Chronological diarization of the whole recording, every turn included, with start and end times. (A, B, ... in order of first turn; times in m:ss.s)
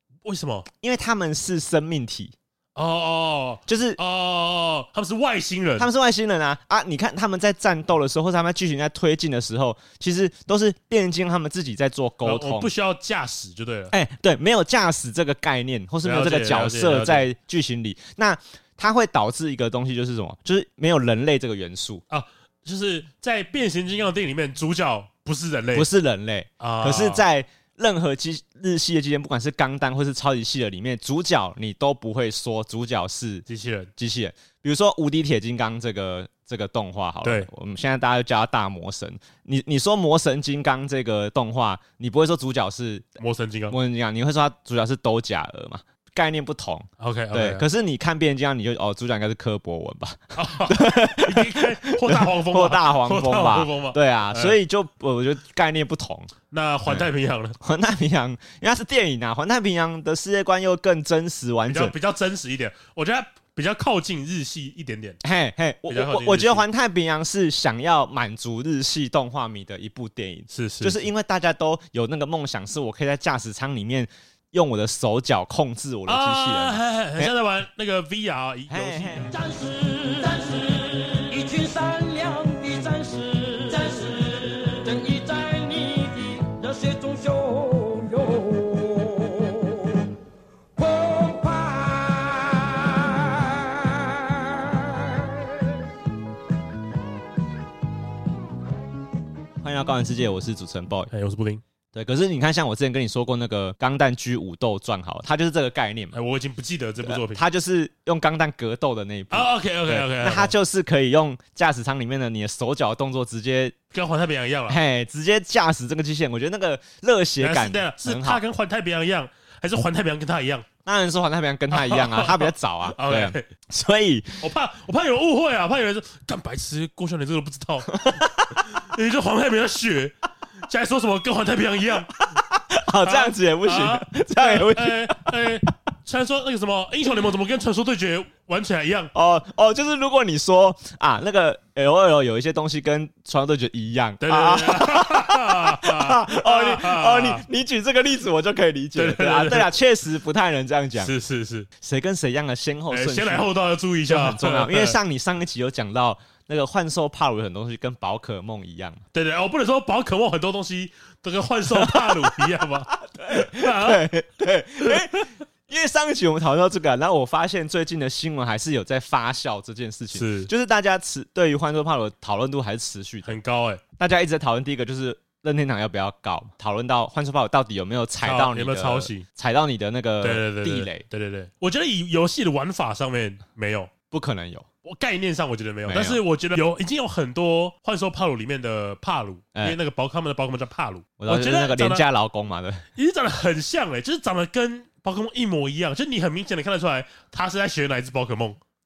0:00.2-0:00.7 A
0:00.8-0:02.3 B
0:02.8-0:05.9 A
0:03.7-0:04.0 B
0:05.8-0:12.7 B
0:12.2-0:13.9 A
0:13.9-0:22.0 B
0:16.0-0:17.3 A
0:22.1-0:25.9 A
0:25.7-0:33.5 B
0:26.6-0:27.3 A
0:33.5-0:33.9 A
0:34.0-0:43.1 B
0:37.2-0:37.5 A
0:43.2-0:43.8 A
0:43.7-0:56.3 B
0:47.0-0:47.6 A
0:50.4-0:54.6 A
0:56.5-0:57.6 A
0:57.6-1:01.9 B
1:01.7-1:05.2 A
1:05.2-1:17.3 B
1:05.9-1:06.6 A
1:10.5-1:11.1 A
1:16.1-1:19.4 A
1:18.7-1:19.3 B
1:19.3-1:30.0 C
1:30.8-1:35.3 C
1:39.6-1:41.1 B
1:41.1-1:41.6 A
1:41.9-1:46.2 B
1:46.1-1:47.4 A
1:47.0-1:53.8 B
1:49.3-1:50.5 A
1:53.9-1:54.8 A
1:54.7-1:58.4 B
1:57.4-2:00.7 A
2:00.8-2:04.4 B
2:01.7-2:03.5 A
2:04.4-2:08.0 A
2:07.9-2:08.6 B
2:08.5-2:10.1 A
2:10.7-2:12.2 A
2:12.6-2:15.4 B
2:13.0-2:19.1 A
2:19.1-2:31.1 B
2:24.2-2:27.4 A
2:29.0-2:29.7 A
2:31.0-2:31.7 A
2:31.8-2:33.5 B
2:32.9-2:35.0 A
2:34.1-2:39.0 B
2:39.1-2:44.1 A
2:41.7-2:42.5 B
2:43.0-2:53.4 B
2:50.1-2:50.5 A
2:53.2-2:53.8 A
2:54.0-3:01.0 B
2:58.2-2:59.2 A
3:00.2-3:03.9 A
3:04.1-3:04.7 B
3:04.8-3:12.0 A
3:05.9-3:06.2 B
3:11.2-3:12.9 B
3:13.0-3:18.6 A